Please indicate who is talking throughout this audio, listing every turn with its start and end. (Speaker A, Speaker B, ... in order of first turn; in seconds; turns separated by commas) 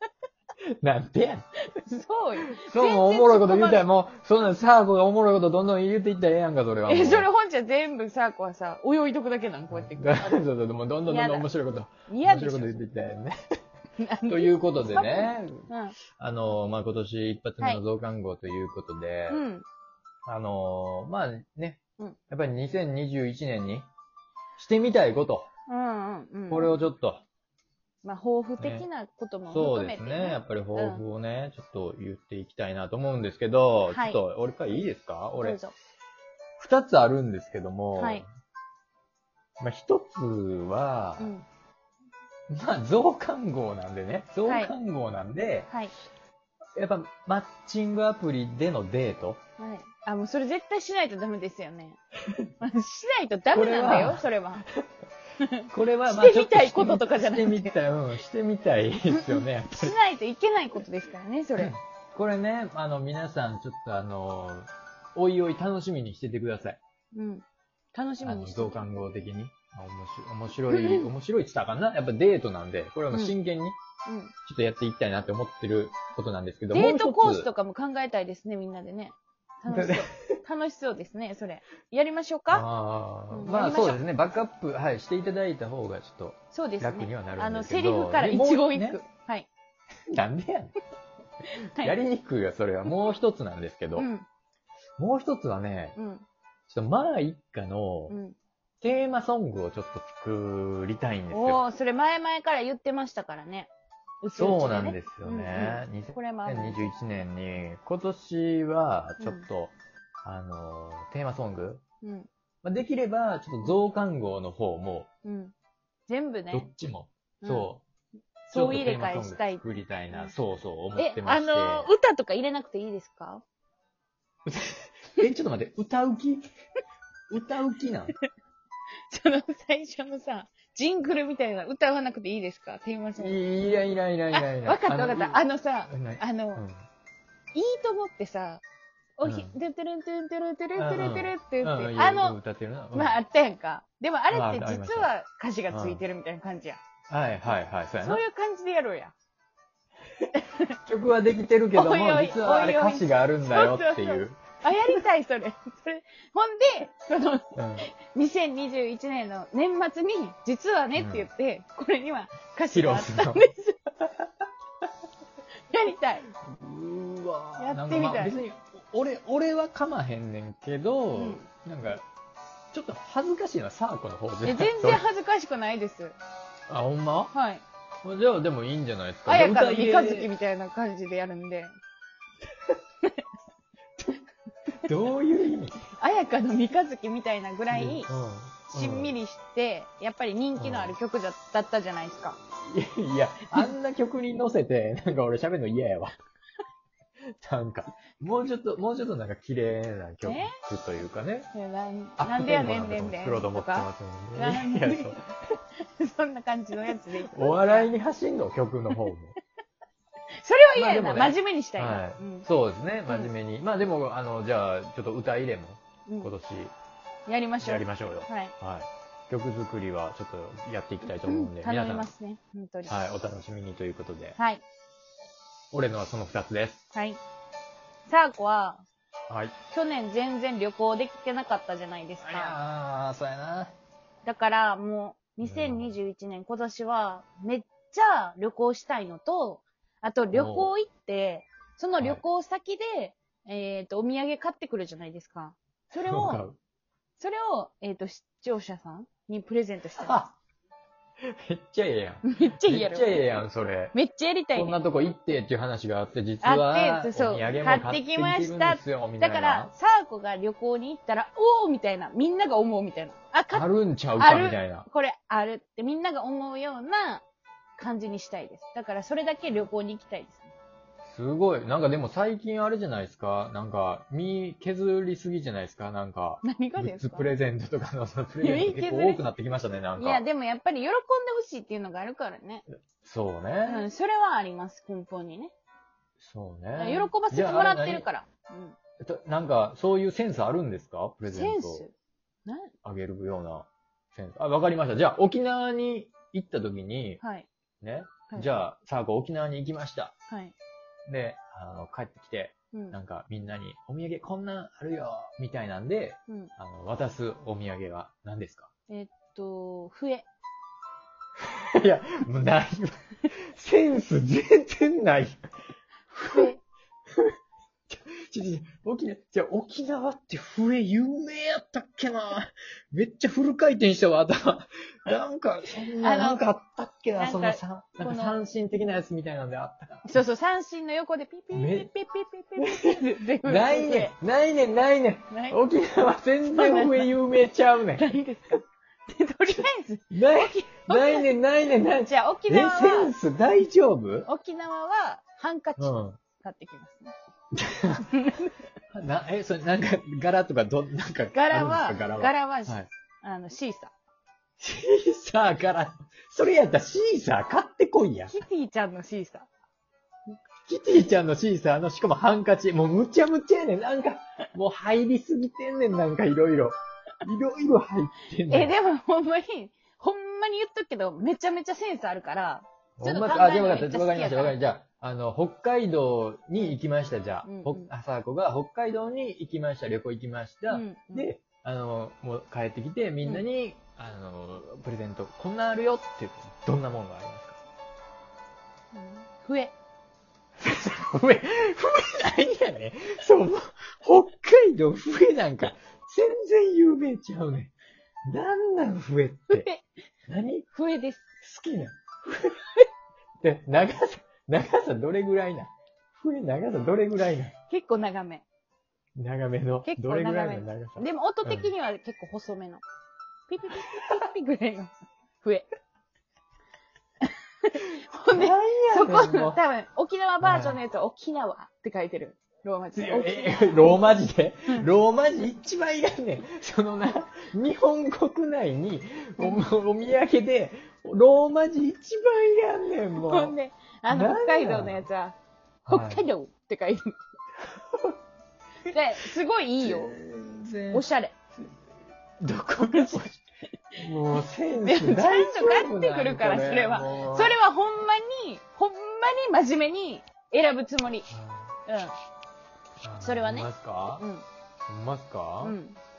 Speaker A: 0.7-1.5, Speaker B: 1.7-3.9, Speaker A: 2.4-7.3, Speaker B: 6.9-10.4, Speaker A: 9.7-13.3, Speaker B: 11.1-11.5, Speaker B: 12.1-12.8, Speaker B: 14.0-16.0, Speaker A: 14.3-19.4, Speaker B: 19.3-19.6, Speaker A: 20.3-23.9, Speaker A: 24.6-25.5, Speaker B: 25.7-26.7, Speaker A: 26.5-27.2, Speaker B: 28.0-31.0, Speaker A: 28.6-28.9, Speaker A: 29.5-35.6, Speaker B: 33.9-34.2, Speaker B: 35.4-35.7, Speaker A: 36.6-38.3, Speaker B: 38.0-38.2, Speaker A: 39.6-41.3, Speaker B: 41.2-41.5, Speaker A: 42.5-45.7, Speaker B: 44.5-44.7, Speaker A: 46.8-49.4, Speaker B: 49.6-52.0, Speaker B: 52.6-54.6, Speaker A: 53.5-54.6, Speaker B: 55.4-57.8, Speaker A: 55.7-60.0, Speaker B: 59.1-61.7, Speaker A: 61.6-66.8, Speaker B: 67.1-68.9, Speaker A: 68.2-73.8, Speaker B: 70.7-71.1, Speaker B: 74.1-74.3, Speaker A: 74.5-77.5, Speaker B: 76.7-82.7, Speaker A: 79.7-80.4, Speaker A: 82.5-89.0, Speaker B: 83.3-84.0, Speaker B: 86.5-89.5, Speaker A: 90.1-90.8, Speaker B: 91.5-92.0, Speaker A: 91.8-94.1, Speaker B: 94.0-94.3, Speaker A: 95.0-96.0, Speaker B: 96.0-96.2, Speaker A: 96.7-98.2, Speaker B: 98.1-98.4, Speaker A: 98.8-101.6, Speaker B: 101.3-103.7, Speaker B: 104.2-107.0, Speaker A: 104.3-109.7, Speaker B: 109.2-109.5, Speaker A: 110.2-111.8, Speaker B: 112.0-112.3, Speaker A: 112.6-115.1, Speaker B: 115.2-115.5, Speaker B: 116.1-116.7, Speaker A: 116.5-117.8, Speaker B: 117.4-117.7, Speaker A: 118.5-121.9, Speaker B: 118.5-120.3, Speaker B: 121.0-123.4, Speaker A: 124.5-126.5, Speaker A: 127.3-128.2, Speaker B: 129.1-133.4, Speaker A: 133.2-136.8, Speaker B: 134.3-136.6, Speaker B: 137.5-138.6, Speaker B: 139.2-142.4, Speaker A: 139.2-139.5, Speaker A: 140.8-143.2, Speaker B: 142.9-146.8, Speaker A: 144.3-145.1, Speaker A: 145.7-146.0, Speaker A: 147.1-148.2, Speaker B: 148.0-149.1, Speaker B: 150.4-150.8, Speaker A: 150.8-155.0, Speaker B: 151.7-163.8, Speaker A: 157.6-157.9, Speaker A: 160.9-161.3, Speaker A: 162.7-163.5, Speaker B: 165.7-166.3, Speaker A: 166.4-172.0, Speaker B: 167.6-168.4, Speaker B: 171.1-171.4, Speaker A: 172.7-175.0, Speaker B: 174.4-176.2, Speaker A: 176.7-177.3, Speaker B: 177.3-177.6, Speaker A: 178.0-180.3, Speaker B: 179.3-181.7, Speaker A: 184.8-185.9, Speaker B: 186.0-188.1, Speaker A: 187.7-189.1, Speaker B: 188.7-192.4, Speaker A: 190.6-191.0, Speaker A: 192.7-196.1, Speaker A: 197.4-201.5, Speaker B: 200.2-200.6, Speaker B: 201.5-205.2, Speaker A: 202.2-205.2, Speaker B: 205.8-207.9, Speaker A: 207.3-209.3, Speaker B: 210.4-212.5, Speaker A: 210.8-216.7, Speaker B: 216.1-216.3, Speaker B: 217.3-218.5, Speaker A: 217.6-222.1, Speaker B: 221.2-222.9, Speaker A: 222.9-224.4, Speaker B: 224.4-224.6, Speaker A: 225.7-226.8, Speaker B: 226.9-227.2, Speaker B: 228.1-228.8, Speaker A: 229.3-229.6, Speaker B: 229.7-232.6, Speaker A: 232.2-233.7, Speaker B: 234.2-246.4, Speaker A: 235.4-235.9, Speaker A: 240.3-240.7, Speaker A: 246.0-246.6, Speaker B: 247.2-250.2, Speaker A: 250.0-250.3, Speaker A: 251.2-253.9, Speaker B: 252.2-253.3, Speaker B: 253.9-254.8, Speaker A: 254.6-259.7, Speaker B: 256.4-267.2, Speaker A: 263.5-264.9, Speaker B: 267.8-270.5, Speaker A: 271.1-280.2, Speaker B: 276.4-277.3, Speaker B: 278.4-279.2, Speaker B: 280.0-282.6, Speaker A: 283.0-283.9, Speaker B: 283.7-285.5, Speaker A: 286.2-288.1, Speaker B: 286.8-288.8, Speaker A: 289.0-291.9, Speaker B: 291.3-291.9, Speaker B: 292.5-292.7, Speaker A: 292.8-297.2, Speaker B: 297.2-297.5, Speaker A: 297.8-300.1, Speaker B: 300.3-300.5, Speaker A: 301.1-308.7, Speaker B: 308.9-310.3, Speaker A: 311.5-315.4, Speaker A: 316.1-316.5, Speaker B: 316.3-316.6, Speaker A: 317.9-330.2, Speaker B: 326.0-326.4, Speaker B: 327.2-328.4, Speaker B: 330.1-334.1, Speaker A: 331.5-331.9, Speaker A: 332.6-338.2, Speaker B: 335.3-335.6, Speaker B: 336.5-337.1, Speaker B: 338.0-341.3, Speaker A: 340.1-344.3, Speaker B: 342.1-343.1, Speaker B: 344.3-347.1, Speaker A: 345.8-346.2, Speaker A: 347.6-348.1, Speaker B: 348.0-348.5, Speaker A: 348.9-352.9, Speaker B: 351.3-353.9, Speaker A: 354.6-358.4, Speaker B: 358.3-359.5, Speaker A: 360.7-368.7, Speaker B: 368.5-374.6, Speaker A: 373.0-387.6, Speaker B: 377.4-377.9, Speaker B: 380.7-381.3, Speaker B: 388.9-389.7, Speaker A: 390.6-397.7, Speaker A: 398.3-399.7, Speaker B: 399.5-399.9, Speaker A: 400.3-400.7, Speaker B: 400.7-401.3, Speaker A: 401.4-402.6, Speaker A: 403.4-407.5, Speaker B: 407.7-408.4, Speaker A: 409.2-411.7, Speaker B: 409.9-412.8, Speaker B: 413.5-415.7, Speaker B: 417.6-424.1, Speaker A: 418.3-419.6, Speaker A: 420.4-420.8, Speaker A: 422.9-433.5, Speaker B: 433.2-435.4, Speaker A: 434.1-435.1, Speaker A: 435.9-436.3, Speaker B: 435.9-437.2, Speaker A: 437.7-438.2, Speaker B: 438.9-440.1, Speaker A: 439.8-441.1, Speaker B: 440.9-441.3, Speaker A: 442.4-443.4, Speaker B: 442.9-443.4, Speaker A: 444.0-447.6, Speaker B: 444.3-451.3, Speaker A: 451.3-451.7, Speaker B: 451.9-452.1, Speaker A: 453.0-454.2, Speaker B: 453.2-454.4, Speaker A: 454.9-455.8, Speaker B: 455.6-456.0